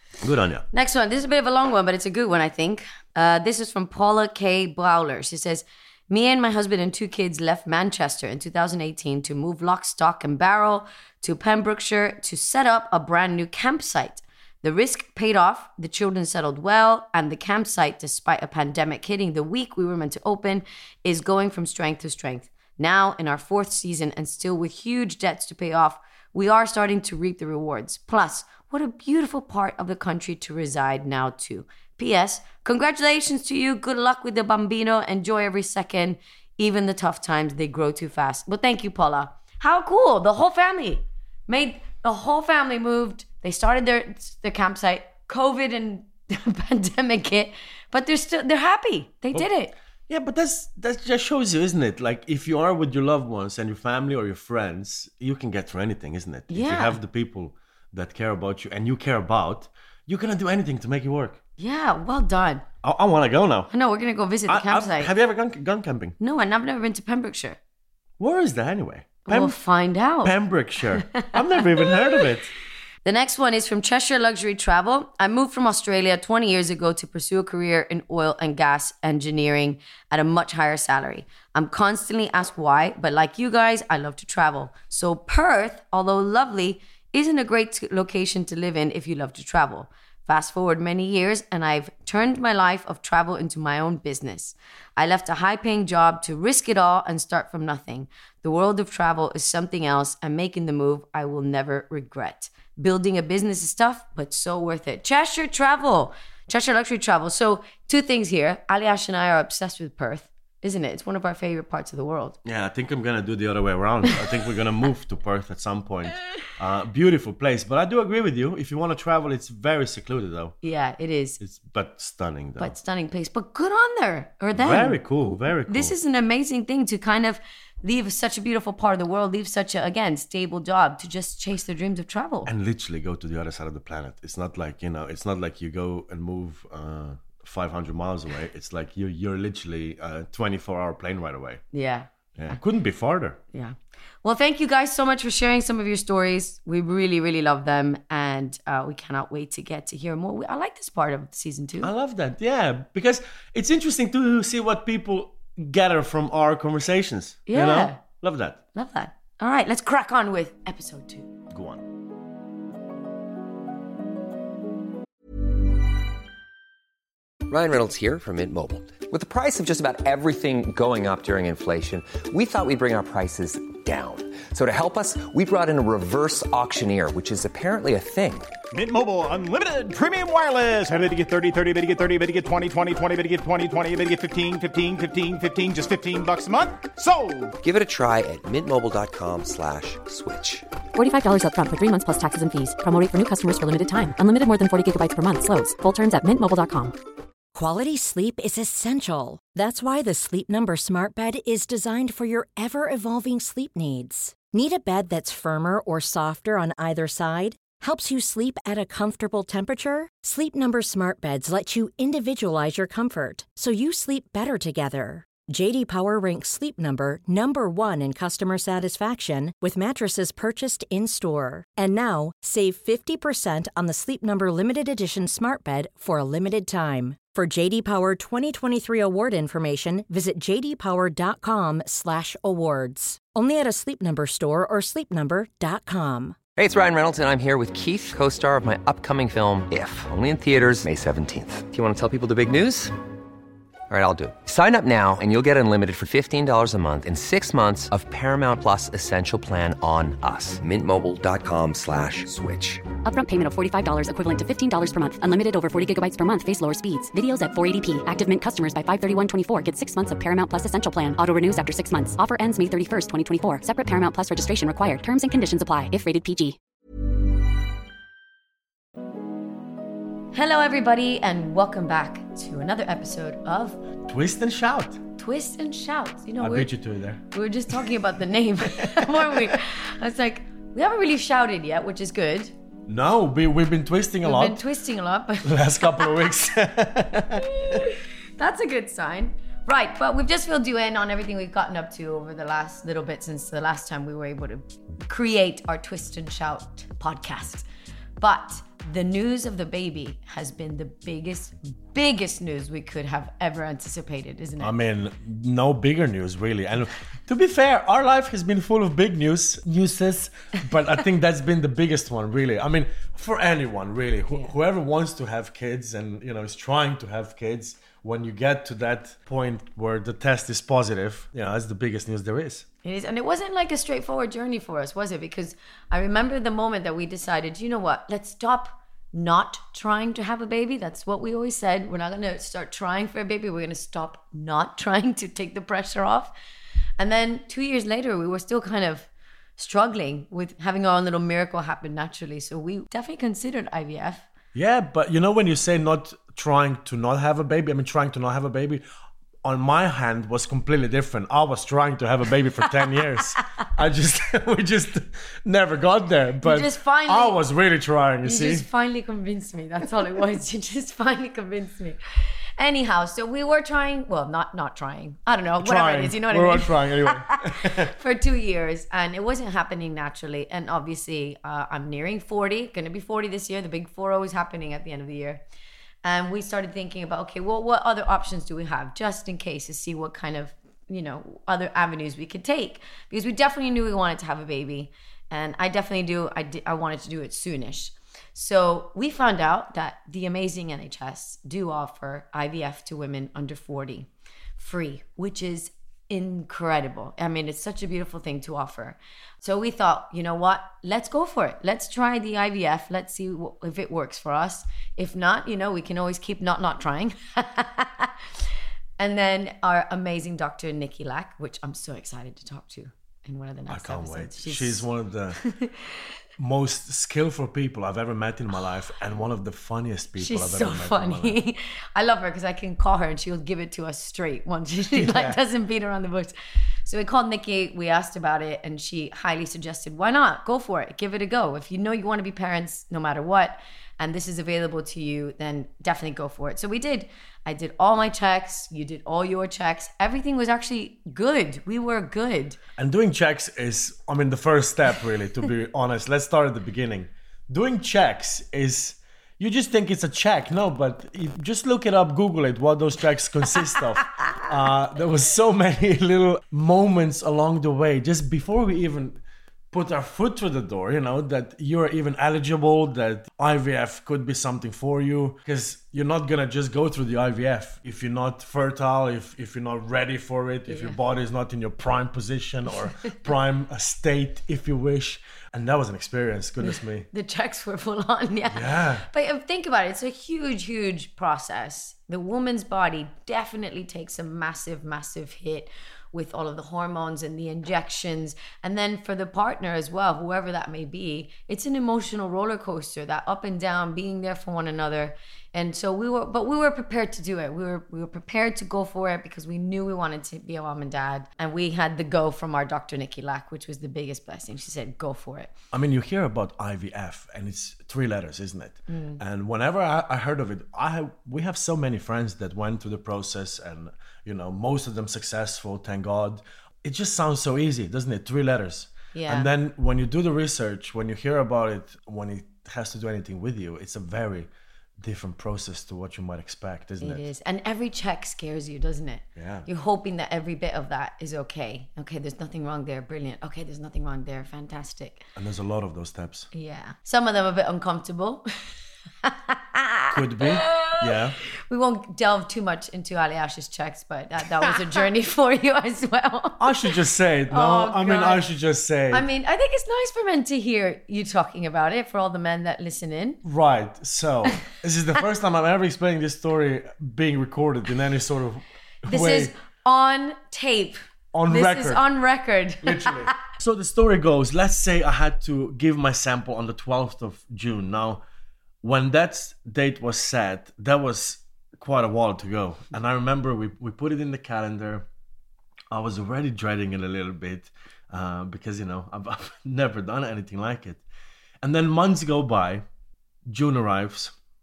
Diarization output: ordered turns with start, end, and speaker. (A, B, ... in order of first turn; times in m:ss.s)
0:00.2-0:00.6 A
0:00.7-0:49.7 B
0:50.1-1:01.4 A
0:56.5-0:57.0 B
1:01.6-1:02.6 B
1:02.8-1:03.7 A
1:03.7-1:05.1 B
1:04.5-1:06.2 A
1:06.2-1:07.6 B
1:08.2-1:09.6 A
1:09.3-1:10.4 B
1:10.2-1:12.5 A
1:10.9-1:12.2 B
1:13.0-1:52.4 B
1:52.4-2:00.5 A
2:00.6-2:01.4 B
2:01.4-2:02.7 A
2:02.6-2:12.5 B
2:04.6-2:05.9 A
2:12.5-2:21.6 A
2:21.7-2:22.6 B
2:22.4-2:23.4 A
2:23.5-2:31.9 B
2:31.8-2:38.6 A
2:37.5-2:38.0 B
2:38.8-2:41.3 B
2:41.5-2:41.8 A
2:47.5-2:58.5 C
2:58.7-3:07.6 D
3:07.6-3:10.7 C
3:10.9-3:17.0 E
3:17.5-3:56.4 F
3:56.6-4:03.0 C
4:03.9-4:12.9 C
4:13.0-4:26.6 E
4:30.3-4:33.8 B
4:34.1-4:35.0 A
4:35.2-4:36.7 B
4:36.4-4:37.2 A
4:37.3-4:42.5 B
4:38.8-4:39.4 A
4:42.9-4:44.6 A
4:44.2-4:46.3 B
4:45.4-4:47.9 A
4:47.4-4:57.6 B
4:58.2-5:04.7 B
5:04.6-5:22.6 A
5:22.8-5:36.3 B
5:37.0-5:44.3 B
5:44.6-5:48.8 A
5:49.4-5:58.6 A
5:56.4-5:57.4 B
5:58.2-6:15.4 B
6:05.6-6:07.9 A
6:16.0-6:48.3 B
6:49.0-6:56.0 B
6:53.7-6:55.4 A
6:56.4-7:01.4 A
7:00.2-7:06.3 B
7:04.9-7:05.4 A
7:06.8-7:22.6 B
7:22.8-7:39.2 A
7:39.7-7:57.1 A
7:50.7-7:51.0 B
7:57.1-8:25.5 B
7:58.5-7:59.1 A
8:25.7-8:47.2 A
8:28.9-8:29.2 B
8:39.1-8:39.5 B
8:47.0-8:55.2 B
8:49.4-8:49.7 A
8:55.4-8:56.5 A
8:56.5-9:01.2 B
9:00.1-9:01.4 A
9:01.7-9:06.6 B
9:06.6-9:09.2 A
9:07.5-9:08.5 B
9:09.1-9:13.4 B
9:13.4-9:19.5 A
9:19.1-9:23.4 B
9:21.3-9:22.0 A
9:22.8-9:28.2 A
9:28.8-9:35.1 A
9:35.9-9:41.0 A
9:41.6-9:42.8 A
9:43.5-9:44.3 A